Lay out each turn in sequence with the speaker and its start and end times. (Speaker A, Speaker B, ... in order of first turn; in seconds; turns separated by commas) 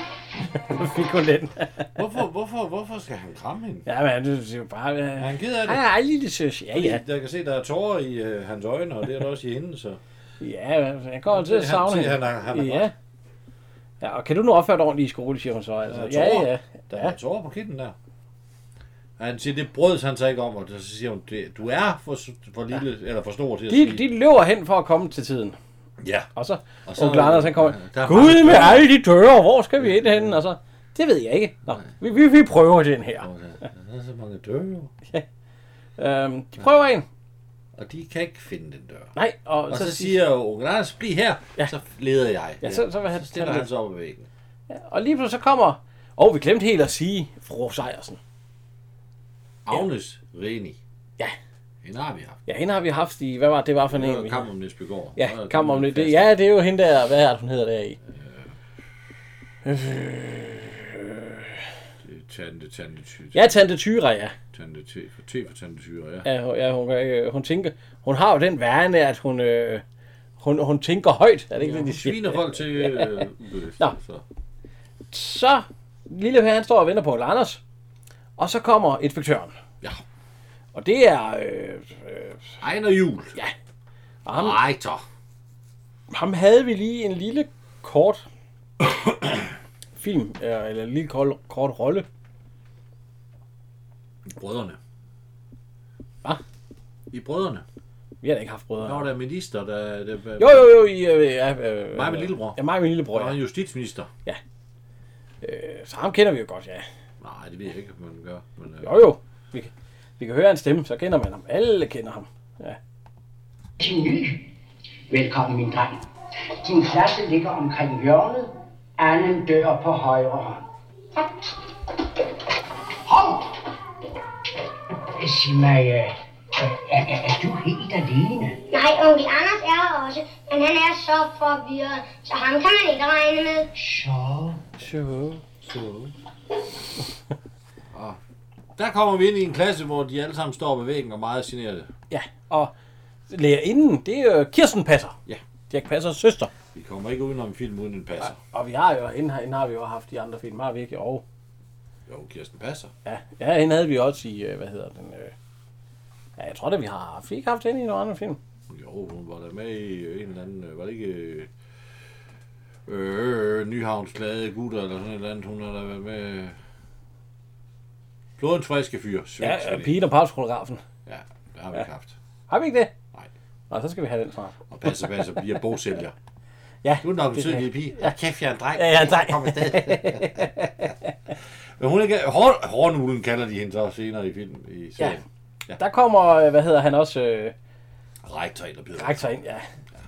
Speaker A: 0.6-1.9, Speaker B: 1.9-3.9, Speaker A: 3.9-7.0, Speaker B: 5.2-5.8, Speaker B: 6.7-10.0, Speaker A: 10.4-12.9, Speaker B: 11.3-12.9, Speaker A: 14.0-17.1, Speaker B: 15.8-17.9, Speaker B: 19.2-24.1, Speaker A: 23.7-25.6, Speaker B: 26.0-26.3, Speaker A: 26.4-33.3, Speaker B: 26.9-28.9, Speaker B: 29.8-30.3, Speaker B: 33.2-34.9, Speaker A: 36.0-37.0, Speaker B: 37.8-39.1, Speaker A: 39.1-40.2, Speaker B: 39.7-44.3, Speaker A: 42.6-43.7, Speaker A: 44.7-48.2, Speaker B: 49.6-50.8, Speaker B: 51.8-52.4, Speaker A: 52.5-54.5, Speaker B: 53.9-56.3, Speaker A: 55.2-58.0, Speaker B: 58.1-58.5, Speaker A: 59.6-61.6, Speaker B: 62.0-63.6, Speaker A: 63.3-64.3, Speaker B: 64.5-66.3, Speaker A: 66.2-69.8, Speaker A: 70.4-73.2, Speaker B: 71.5-74.2, Speaker A: 75.1-77.6, Speaker A: 78.4-79.5, Speaker A: 80.7-82.5, Speaker B: 82.6-83.4, Speaker A: 84.2-84.6, Speaker B: 84.3-85.0, Speaker A: 86.1-88.2, Speaker B: 89.0-89.4, Speaker A: 90.0-92.0, Speaker B: 94.3-94.8, Speaker B: 97.1-97.6, Speaker A: 98.2-99.0, Speaker B: 98.8-100.8, Speaker A: 100.4-103.4, Speaker B: 101.9-104.1, Speaker A: 105.4-106.8, Speaker B: 107.2-109.0, Speaker A: 108.8-112.8, Speaker C: 113.8-114.5, Speaker C: 115.1-116.0, Speaker C: 116.6-120.6, Speaker C: 123.0-123.5, Speaker C: 125.2-128.6, Speaker D: 128.7-133.7, Speaker C: 133.8-134.6, Speaker A: 134.8-135.4, Speaker B: 135.6-136.1, Speaker B: 137.9-138.2, Speaker B: 138.8-141.9, Speaker A: 142.1-142.7, Speaker A: 143.3-145.2, Speaker A: 145.7-146.5, Speaker B: 146.7-148.4, Speaker A: 148.2-151.2, Speaker B: 152.1-152.9, Speaker A: 153.0-155.3, Speaker A: 156.4-158.4, Speaker B: 158.7-161.5, Speaker B: 162.9-166.5, Speaker B: 168.4-170.0, Speaker A: 169.4-170.8, Speaker B: 171.1-172.2, Speaker A: 172.5-172.9, Speaker A: 173.7-174.6, Speaker B: 174.7-176.1, Speaker A: 176.8-178.1, Speaker B: 177.0-180.9, Speaker A: 178.8-181.1, Speaker B: 181.8-185.8, Speaker A: 185.8-187.5, Speaker B: 188.2-189.3, Speaker A: 189.0-189.7